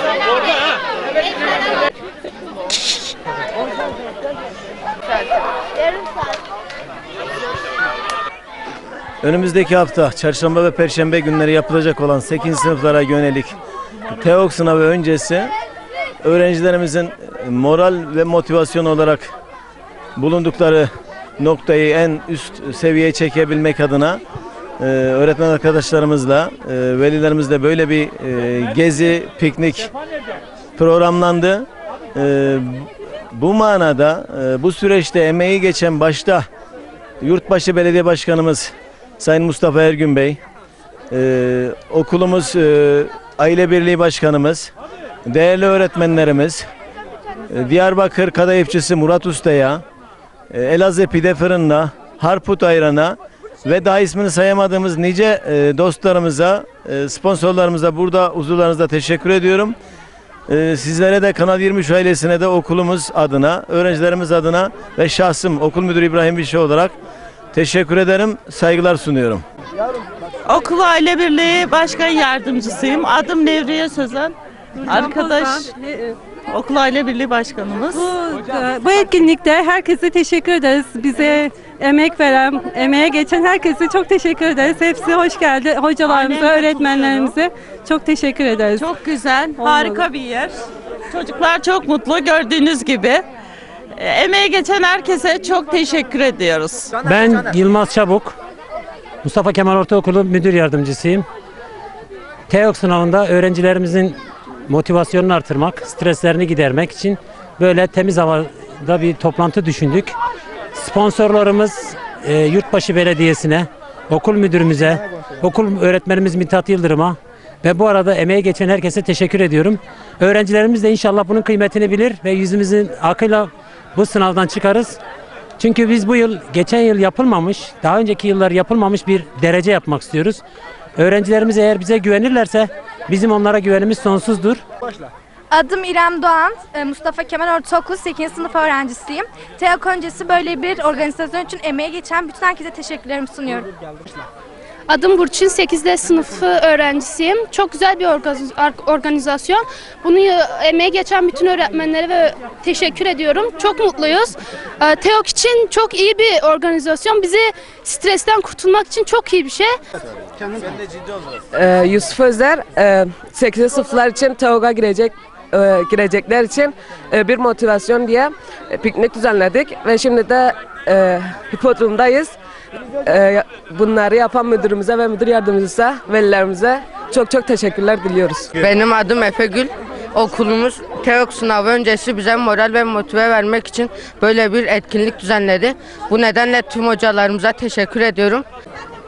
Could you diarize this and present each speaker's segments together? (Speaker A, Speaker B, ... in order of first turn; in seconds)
Speaker A: 9.2-13.6, 14.2-15.5, 16.2-19.3, 20.2-20.9, 21.4-24.2, 24.8-29.9, 30.8-36.4, 37.2-40.4, 41.1-44.7, 45.3-46.6, 47.5-49.8, 50.5-59.8, 60.5-66.9, 67.5-69.4
Speaker B: 70.5-75.7, 76.5-78.1, 86.0-87.3, 88.8-90.5, 91.1-93.2, 94.0-96.9
Speaker C: 74.8-76.1, 77.9-89.0, 89.5-90.1
Speaker D: 97.0-98.3, 99.2-101.2, 102.5-110.2, 110.7-125.0, 125.6-130.4, 130.9-134.6
Speaker E: 135.5-143.7
Speaker F: 144.9-159.7
Speaker G: 161.5-172.3, 173.0-178.5
Speaker H: 178.6-188.4